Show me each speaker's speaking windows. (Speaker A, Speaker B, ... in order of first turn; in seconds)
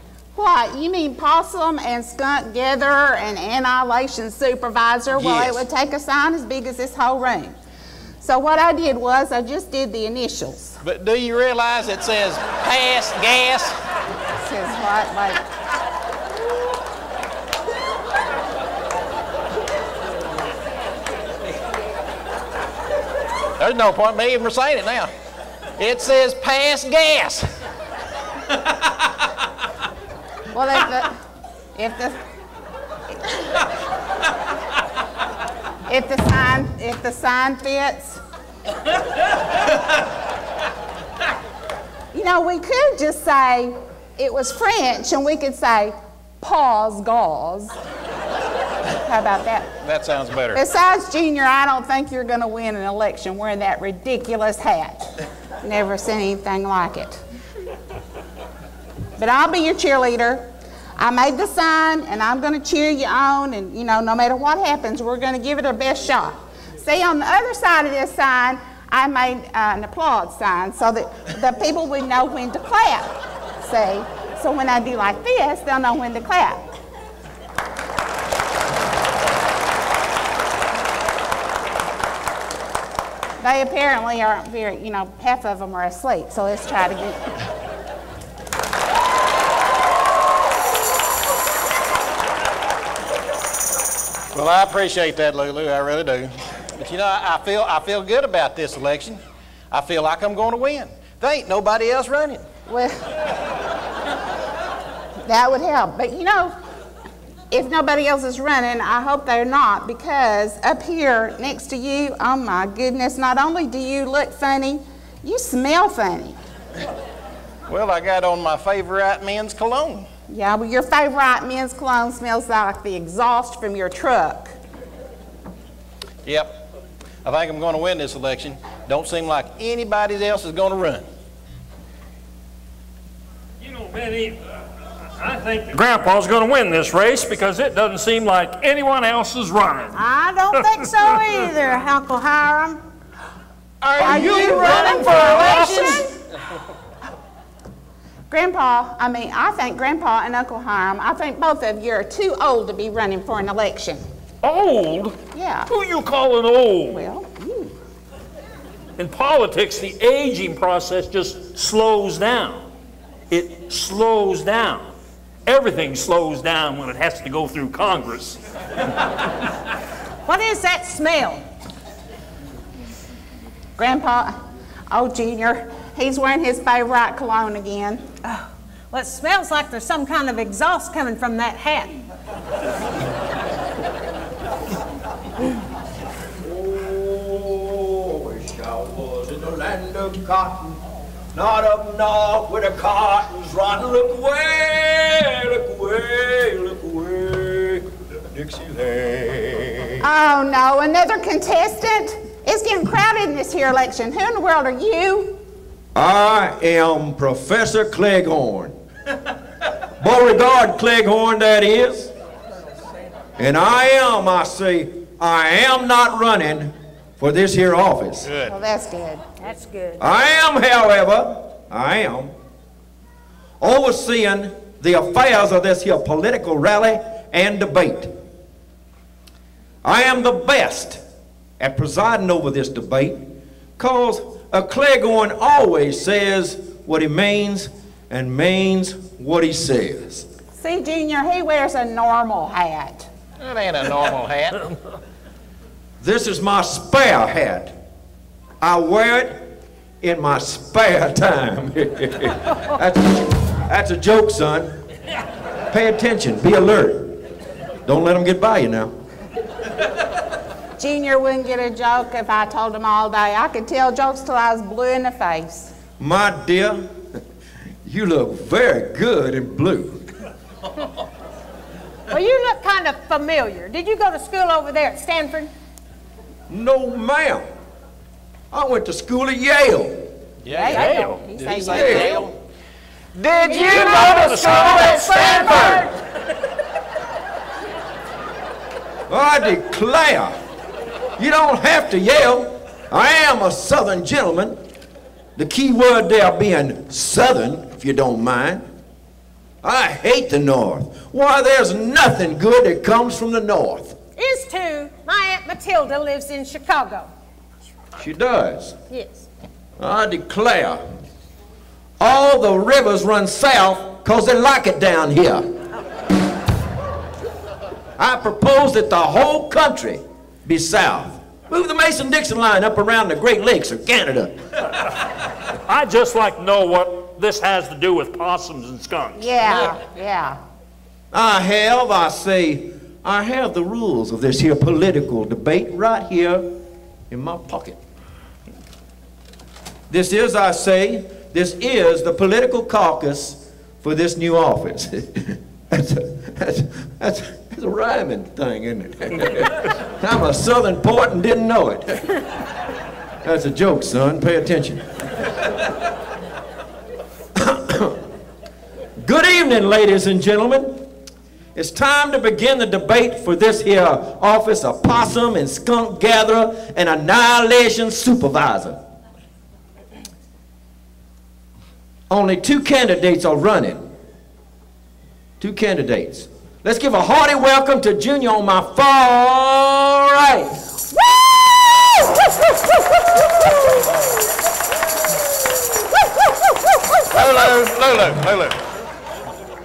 Speaker A: 0.3-7.5, 8.2-10.8, 14.4-15.4, 30.5-31.2, 31.8-32.2, 35.9-38.2, 42.1-47.7, 49.0-49.7, 50.5-55.1, 55.6-57.2, 59.2-76.7, 83.4-87.3, 102.7-103.0, 105.3-106.6, 107.5-116.4, 120.3-124.6, 144.0-146.0, 148.3-154.0, 155.3-155.7, 156.9-157.7, 173.8-174.3, 174.9-178.0, 200.0-205.4, 218.4-219.2, 240.6-243.1, 260.8-265.7, 280.5-282.3, 329.2-330.4
Speaker B: 5.1-5.6, 10.8-13.8, 23.6-25.1, 25.8-27.5, 49.8-50.6, 94.3-99.2, 99.7-102.4, 117.7-120.1, 126.3-126.6, 127.2-131.1, 218.3-218.5, 243.4-244.7, 280.4-282.3, 283.2-285.2, 387.1-388.6
Speaker C: 133.6-134.4, 135.2-140.0, 140.6-140.9, 144.0-146.0, 154.4-157.1, 159.0-162.7, 163.3-164.9, 165.5-168.4, 280.7-281.2, 283.5-285.9, 325.7-329.7
Speaker D: 139.9-142.8, 144.0-146.0, 170.3-171.4, 178.2-182.0, 219.4-220.0, 272.1-275.5, 283.5-285.9, 304.2-307.1, 308.9-309.2
Speaker E: 144.1-145.2, 186.4-190.8, 191.3-200.0, 205.9-208.8, 210.0-212.1, 213.4-218.3, 220.0-222.3, 223.6-228.1, 229.8-231.0, 231.6-233.3, 233.8-240.3, 246.0-247.7, 248.6-249.5, 250.0-254.8, 255.7-257.2, 257.9-258.9, 266.0-266.9, 267.9-270.1, 276.5-277.5, 278.5-280.1, 281.8-282.0, 289.1-290.4, 291.2-294.6, 295.4-298.6, 299.6-304.0, 308.0-308.8, 309.8-310.8, 312.0-315.5, 318.0-324.4, 331.1-336.5, 337.1-337.8, 339.9-352.2, 353.2-354.9, 357.4-358.0, 359.0-360.8, 361.6-368.8, 372.1-373.9, 375.4-380.6